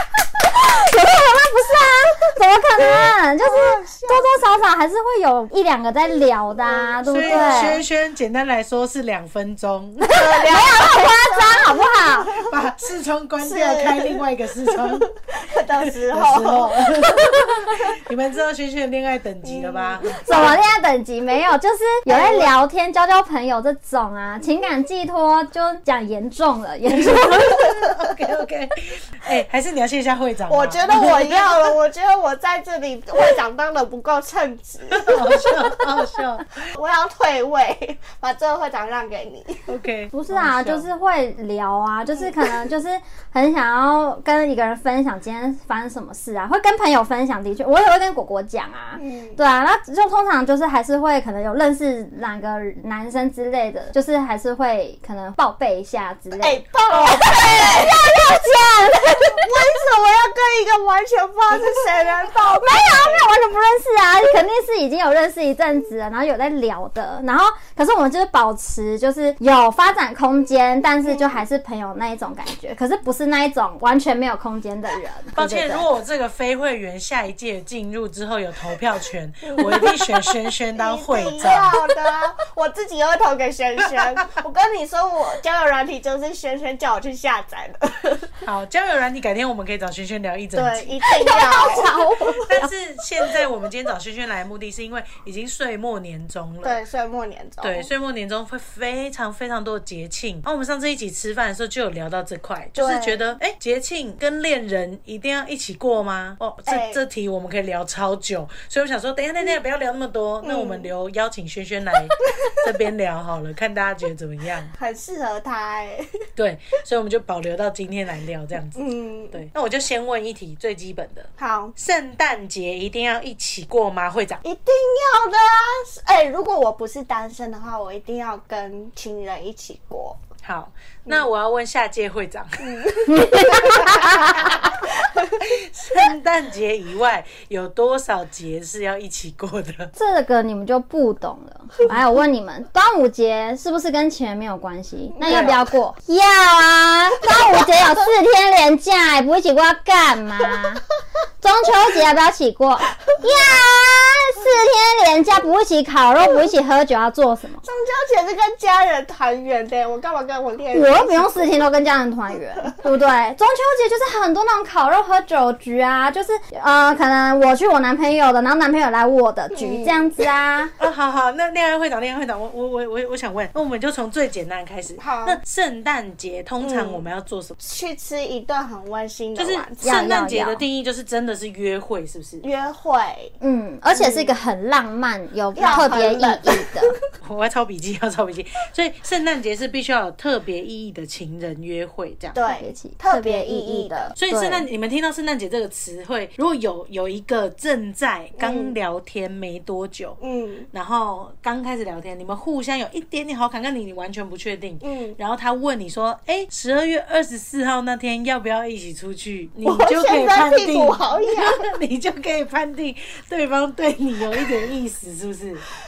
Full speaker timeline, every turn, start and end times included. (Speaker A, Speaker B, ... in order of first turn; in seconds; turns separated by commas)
Speaker A: 0.5-7.8, Speaker B: 3.4-4.3, Speaker B: 6.6-7.8, Speaker C: 7.1-10.3, Speaker B: 10.0-12.5, Speaker A: 10.1-12.3, Speaker C: 12.4-15.1, Speaker B: 13.4-17.9, Speaker C: 15.8-20.7, Speaker B: 19.4-20.6, Speaker A: 20.0-27.8, Speaker B: 22.1-22.5, Speaker C: 26.9-31.4, Speaker B: 30.5-35.6, Speaker A: 30.9-31.5, Speaker C: 34.9-36.5, Speaker B: 36.7-39.7, Speaker C: 39.6-40.9, Speaker A: 40.1-59.5, Speaker B: 49.0-49.4, Speaker B: 56.4-58.0, Speaker B: 59.2-63.2, Speaker A: 61.5-61.8, Speaker A: 62.5-75.9, Speaker B: 71.1-71.4, Speaker C: 75.4-81.8, Speaker B: 79.4-80.1, Speaker B: 80.7-88.4, Speaker C: 84.0-84.2, Speaker C: 88.4-91.0, Speaker B: 90.5-92.5, Speaker A: 91.0-92.7, Speaker C: 92.4-96.8, Speaker B: 96.6-97.9, Speaker C: 97.6-114.7, Speaker B: 102.7-103.3, Speaker B: 106.7-107.0, Speaker B: 110.4-110.9, Speaker B: 114.8-116.1, Speaker C: 116.3-124.4, Speaker B: 118.7-119.4, Speaker B: 121.4-121.7, Speaker B: 124.4-130.2, Speaker C: 130.4-133.0, Speaker B: 132.6-135.4, Speaker A: 133.1-134.6, Speaker C: 133.6-134.6, Speaker C: 135.4-139.9, Speaker A: 139.9-150.8, Speaker B: 145.2-145.6, Speaker C: 145.3-145.6, Speaker A: 151.4-157.6, Speaker B: 157.6-161.6, Speaker A: 160.7-170.7, Speaker B: 169.5-170.1, Speaker C: 170.8-177.6, Speaker B: 175.0-175.4, Speaker B: 176.6-177.0, Speaker B: 177.6-179.9, Speaker C: 179.3-182.4, Speaker A: 179.8-180.6, Speaker B: 182.4-183.3, Speaker A: 183.4-186.9, Speaker B: 183.9-184.4, Speaker B: 185.5-187.0, Speaker C: 187.2-192.4, Speaker B: 192.3-194.1, Speaker A: 192.4-194.7, Speaker C: 194.2-200.2, Speaker B: 198.4-198.7, Speaker B: 200.2-200.7, Speaker C: 200.7-215.6, Speaker B: 204.8-205.2, Speaker B: 209.6-211.7